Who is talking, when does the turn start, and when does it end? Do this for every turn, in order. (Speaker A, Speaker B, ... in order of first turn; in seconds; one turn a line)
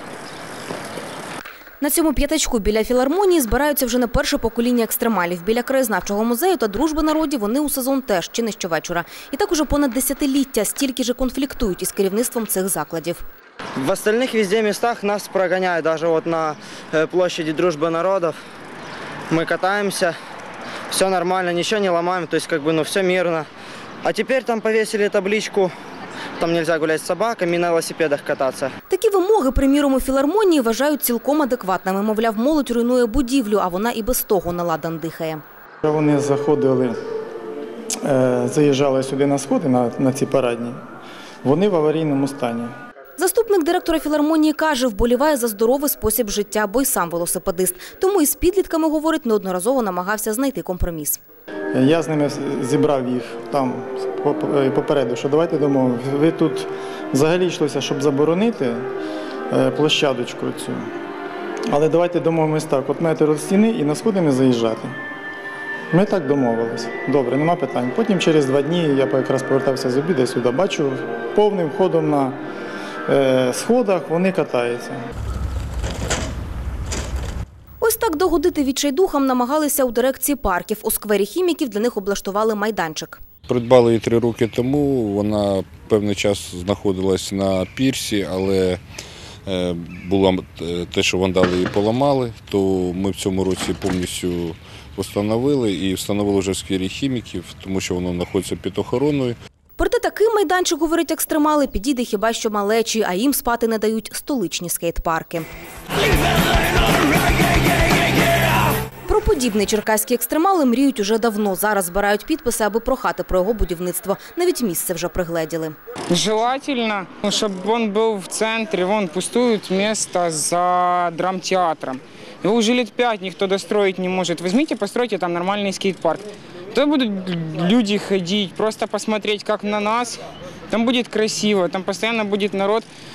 Speaker A: 1.8-13.2
Speaker B: 13.8-18.3
Speaker B: 19.3-20.1
Speaker B: 20.9-23.5
Speaker B: 24.0-25.7
Speaker B: 26.4-28.7
Speaker A: 28.9-35.4
Speaker C: 35.8-37.0
Speaker C: 38.0-40.8
Speaker C: 41.4-42.7
Speaker A: 43.2-51.2
Speaker C: 51.7-58.8
Speaker C: 59.5-60.9
Speaker C: 61.7-64.9
Speaker C: 65.9-72.3
Speaker C: 73.1-75.0
Speaker A: 77.8-83.2
Speaker D: 83.5-88.8
Speaker D: 89.5-99.4
Speaker A: 99.8-105.5
Speaker A: 109.0-115.7
Speaker E: 116.1-132.9